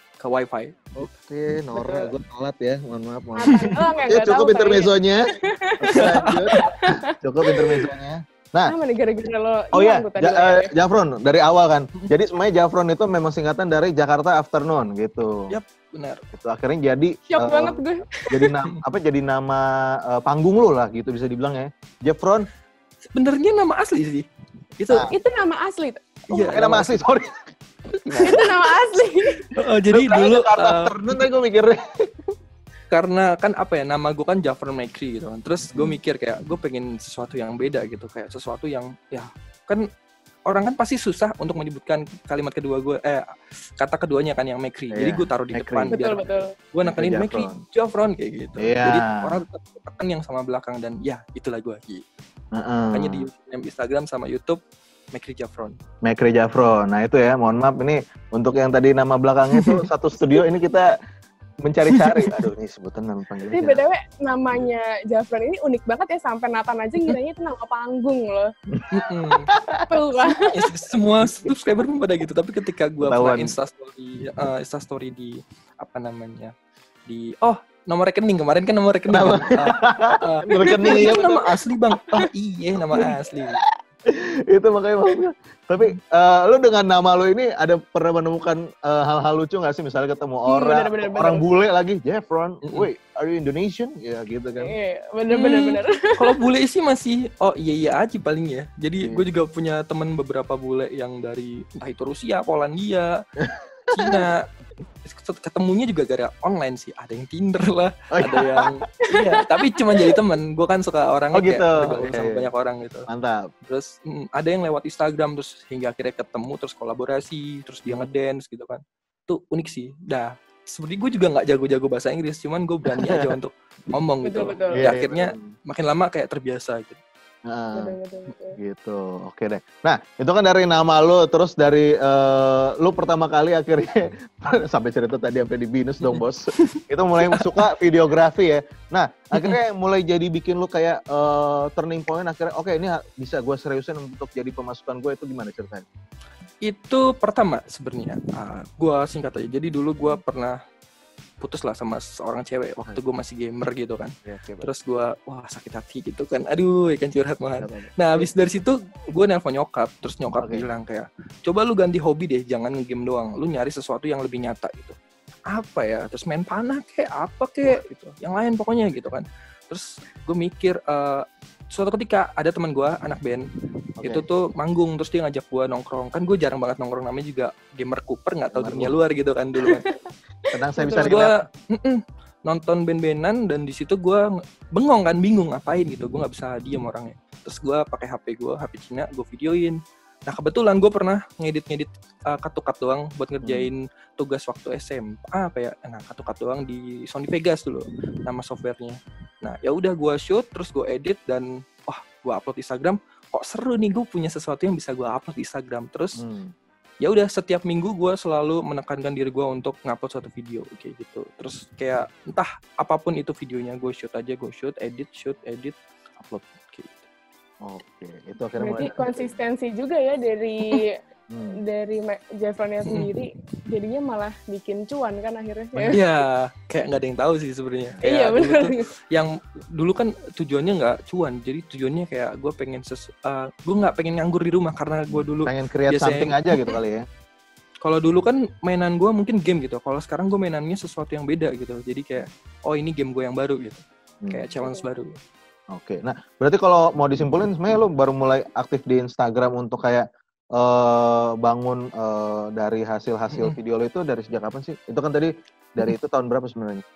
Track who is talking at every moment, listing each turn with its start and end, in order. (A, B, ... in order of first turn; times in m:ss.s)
0:00.2-0:01.1 A
0:01.0-0:05.2 B
0:01.8-0:02.1 C
0:03.4-0:07.9 C
0:05.8-0:08.7 B
0:06.0-0:06.7 A
0:08.7-0:10.7 C
0:09.7-0:15.5 B
0:15.5-0:16.3 A
0:16.3-0:22.5 B
0:17.3-0:18.1 C
0:23.1-0:24.2 A
0:24.8-0:25.1 A
0:25.1-0:26.5 C
0:26.3-0:27.0 A
0:26.3-0:27.4 B
0:28.0-0:28.5 B
0:28.1-0:28.5 A
0:28.3-0:29.4 C
0:29.6-0:31.3 A
0:29.9-0:31.8 B
0:32.9-0:39.8 A
0:35.7-0:36.0 B
0:40.5-0:43.2 A
0:43.8-0:52.0 A
0:44.9-0:46.2 B
0:45.9-0:46.5 C
0:46.8-0:47.6 B
0:48.6-0:49.4 B
0:52.6-0:53.3 B
0:52.9-0:54.6 A
0:55.1-0:55.8 A
0:56.0-1:01.0 B
0:59.5-0:59.8 A
1:01.6-1:03.8 B
1:01.9-1:02.4 A
1:03.5-1:08.5 C
1:08.9-1:09.5 A
1:09.5-1:09.8 B
1:09.9-1:10.5 C
1:10.4-1:16.5 A
1:11.2-1:11.5 B
1:13.0-1:13.6 B
1:17.1-1:23.6 A
1:19.1-1:21.5 B
1:20.6-1:21.2 C
1:24.1-1:34.8 B
1:30.5-1:31.4 C
1:32.6-1:32.9 A
1:34.6-1:36.3 C
1:35.3-1:43.1 A
1:43.4-1:44.2 B
1:43.9-1:44.4 A
1:45.0-1:53.1 A
1:48.1-1:48.7 B
1:49.1-1:49.4 C
1:51.3-1:52.5 B
1:53.1-1:53.5 B
1:53.7-2:07.0 A
2:04.2-2:04.9 C
2:04.8-2:05.5 B
2:07.5-2:07.9 B
2:07.8-2:08.6 C
2:08.6-2:25.9 B
2:16.7-2:17.6 A
2:19.3-2:19.6 A
2:26.6-2:30.6 A
2:31.4-2:45.0 A
2:34.3-2:34.7 B
2:37.6-2:38.3 B
2:40.4-2:40.7 B
2:45.5-2:53.4 A
2:54.0-2:59.9 A
2:58.5-2:59.0 B
3:00.5-3:01.4 B
3:00.8-3:26.2 A
3:13.4-3:13.7 B
3:26.2-3:26.5 B
3:27.0-3:37.1 A
3:37.6-3:39.4 B
3:38.6-3:40.9 C
3:41.3-3:41.6 B
3:41.6-3:46.0 C
3:45.9-3:56.5 A
3:48.0-3:48.8 C
3:55.1-3:57.0 B
3:57.8-4:05.2 A
4:05.7-4:10.0 B
4:10.6-4:16.8 B
4:13.3-4:13.6 A